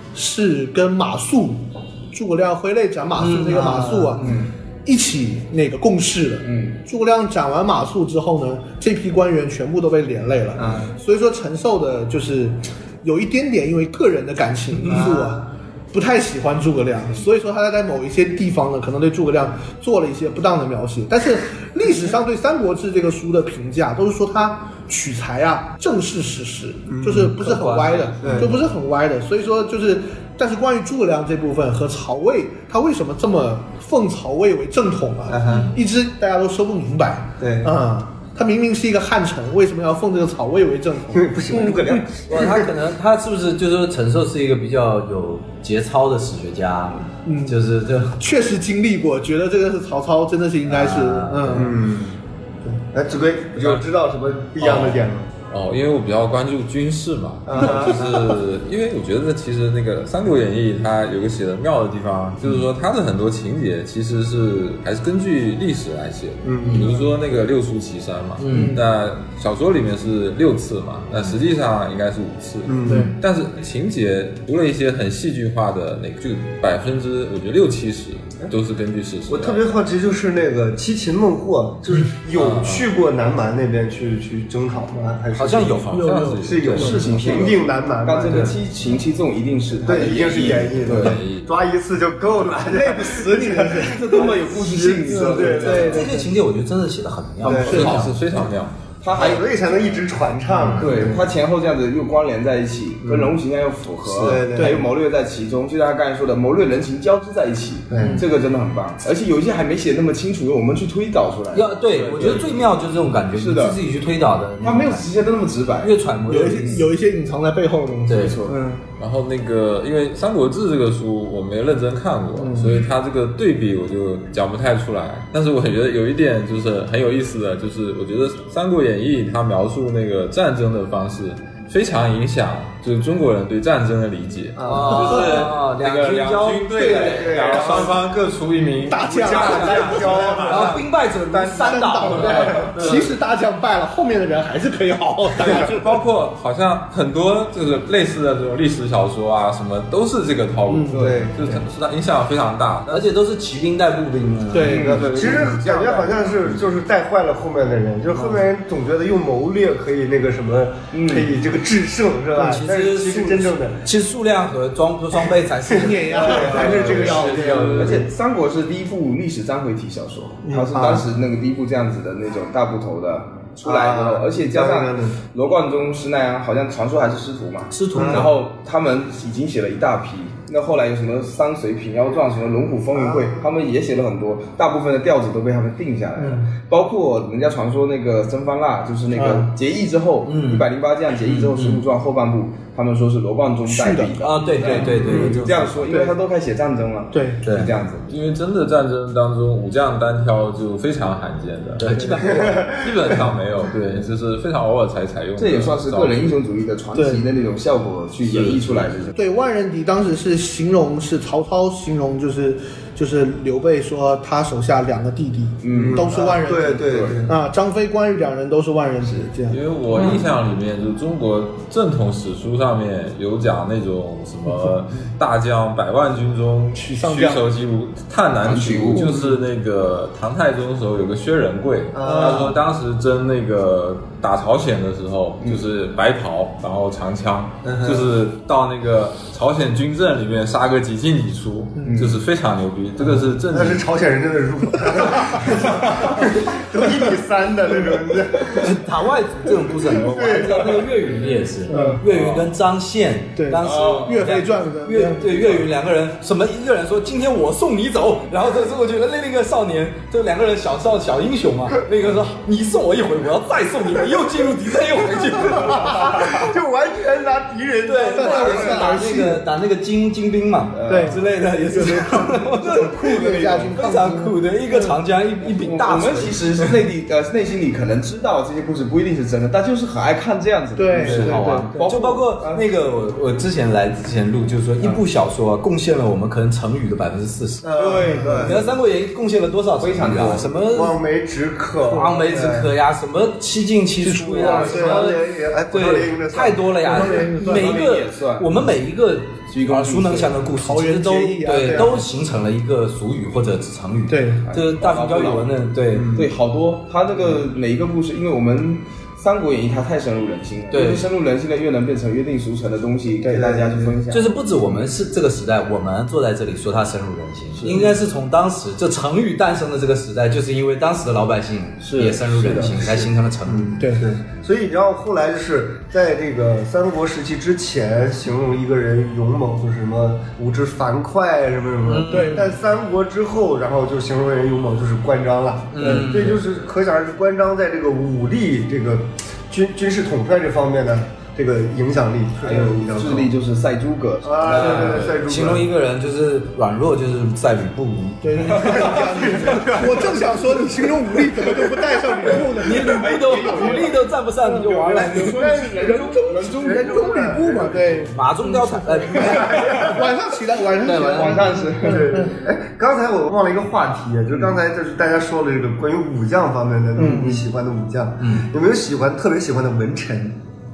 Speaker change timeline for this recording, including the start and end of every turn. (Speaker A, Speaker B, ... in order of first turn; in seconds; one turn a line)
Speaker A: 0.1-42.0
Speaker B: 3.2-4.4
Speaker C: 4.2-4.5
Speaker C: 6.4-6.8
Speaker D: 14.9-15.4
Speaker D: 26.9-27.3
Speaker B: 27.3-28.5
Speaker D: 28.2-28.5
Speaker D: 35.3-35.7
Speaker D: 37.4-37.7
Speaker D: 41.1-42.7
Speaker B: 42.3-48.2
Speaker A: 47.2-47.6
Speaker A: 48.2-51.8
Speaker B: 50.7-51.7
Speaker D: 51.5-55.2
Speaker E: 54.6-79.6
Speaker D: 57.5-58.3
Speaker D: 66.4-67.0
Speaker B: 66.6-66.9
Speaker B: 68.4-68.8
Speaker A: 68.5-68.8
Speaker D: 72.6-73.1
Speaker A: 72.8-73.1
Speaker D: 79.3-85.9
Speaker E: 82.3-82.9
Speaker B: 85.3-87.3
Speaker E: 85.9-87.0
Speaker A: 85.9-87.4
Speaker D: 86.4-88.5
Speaker C: 86.7-91.2
Speaker B: 88.2-88.5
Speaker D: 89.8-96.3
Speaker E: 90.4-91.5
Speaker A: 92.6-94.4
Speaker C: 93.7-96.1
Speaker A: 95.1-96.2
Speaker B: 95.6-98.0
Speaker D: 97.4-98.0
Speaker C: 97.5-98.1
Speaker A: 97.6-98.1
Speaker E: 97.6-98.8
Speaker C: 99.0-100.0
Speaker D: 99.1-101.3
Speaker C: 100.7-112.6
Speaker D: 103.0-103.3
Speaker B: 104.1-104.4
Speaker D: 104.2-104.8
Speaker A: 104.5-104.8
Speaker D: 107.9-108.2
Speaker B: 111.5-115.1
Speaker C: 113.3-113.8
Speaker C: 114.6-115.9
Speaker B: 115.8-116.8
Speaker A: 116.3-118.3
Speaker B: 118.1-118.4
Speaker C: 118.1-118.8
Speaker E: 119.0-140.8
Speaker A: 122.4-122.7
Speaker D: 134.6-135.4
Speaker B: 134.7-137.8
Speaker D: 136.8-138.3
Speaker A: 138.8-140.6
Speaker D: 139.0-140.8
Speaker B: 139.5-142.9
Speaker D: 141.3-142.9
Speaker A: 141.4-145.9
Speaker E: 142.7-143.1
Speaker E: 145.4-153.1
Speaker A: 150.7-151.1
Speaker C: 150.9-151.2
Speaker D: 150.9-151.6
Speaker B: 152.9-154.8
Speaker A: 154.5-155.4
Speaker C: 154.6-155.5
Speaker E: 154.8-156.3
Speaker D: 154.8-163.8
Speaker C: 160.9-161.3
Speaker B: 162.4-166.8
Speaker A: 165.7-168.0
Speaker D: 165.7-168.0
Speaker E: 166.3-168.0
Speaker C: 166.4-198.1
Speaker A: 170.5-171.0
Speaker D: 173.6-175.2
Speaker B: 177.7-178.3
Speaker D: 177.9-178.3
Speaker A: 186.2-186.5
Speaker A: 189.1-189.5
Speaker B: 190.2-190.7
Speaker B: 191.2-191.8
Speaker A: 193.7-195.3
Speaker B: 194.2-196.0
Speaker A: 197.1-197.4
Speaker B: 197.4-197.7
Speaker E: 198.1-206.3
Speaker B: 201.8-202.7
Speaker D: 202.1-203.2
Speaker C: 205.4-209.2
Speaker A: 206.9-207.2
Speaker E: 208.2-208.7
Speaker A: 209.2-220.2
Speaker C: 215.6-217.2
Speaker D: 215.7-217.3
Speaker E: 219.5-243.8
Speaker A: 226.8-227.4
Speaker C: 228.4-229.2
Speaker D: 231.9-232.6
Speaker A: 232.0-232.5
Speaker D: 237.6-238.1
Speaker C: 241.8-242.2
Speaker D: 243.0-248.8
Speaker B: 248.6-266.3
Speaker D: 249.9-250.8
Speaker C: 250.3-250.8
Speaker A: 251.7-252.0
Speaker C: 251.7-252.0
Speaker E: 252.1-252.5
Speaker A: 253.4-255.5
Speaker C: 253.6-254.2
Speaker D: 265.5-268.9
Speaker B: 267.9-276.7
Speaker A: 268.1-269.4
Speaker C: 270.7-271.2
Speaker A: 270.9-275.0
Speaker C: 272.3-273.8
Speaker C: 275.4-282.6
Speaker A: 280.8-281.9
Speaker B: 281.0-287.7
Speaker D: 287.6-288.6
Speaker C: 287.8-288.6
Speaker A: 288.0-288.4
Speaker B: 288.4-290.9
Speaker C: 289.8-290.6
Speaker D: 290.7-292.7
Speaker B: 291.9-306.1
Speaker D: 294.1-297.0
Speaker A: 294.4-295.1
Speaker A: 296.8-297.8
Speaker C: 297.3-298.5
Speaker C: 299.5-300.4
Speaker A: 300.5-302.0
Speaker A: 304.1-304.4
Speaker C: 304.4-305.6
Speaker D: 305.9-306.3
Speaker C: 306.1-314.4
Speaker B: 310.7-311.1
Speaker D: 313.3-313.9
Speaker B: 314.1-323.8
Speaker C: 317.6-318.0
Speaker C: 321.8-322.9
Speaker D: 322.6-343.3
Speaker A: 323.8-324.0
Speaker B: 331.9-332.4
Speaker A: 332.1-332.5
Speaker B: 335.7-336.4
Speaker C: 342.4-345.0
Speaker D: 344.2-345.7
Speaker B: 344.4-348.9
Speaker A: 348.2-353.9
Speaker C: 348.5-348.9
Speaker D: 348.6-350.4
Speaker B: 352.6-355.4
Speaker C: 352.7-354.0
Speaker A: 354.5-362.3
Speaker C: 354.6-357.1
Speaker D: 355.2-358.1
Speaker B: 358.1-359.9
Speaker D: 359.2-360.1
Speaker C: 359.3-359.9
Speaker B: 360.8-361.6
Speaker C: 360.8-362.1
Speaker D: 361.8-370.4
Speaker A: 367.0-367.4
Speaker C: 367.0-367.4
Speaker B: 368.2-368.5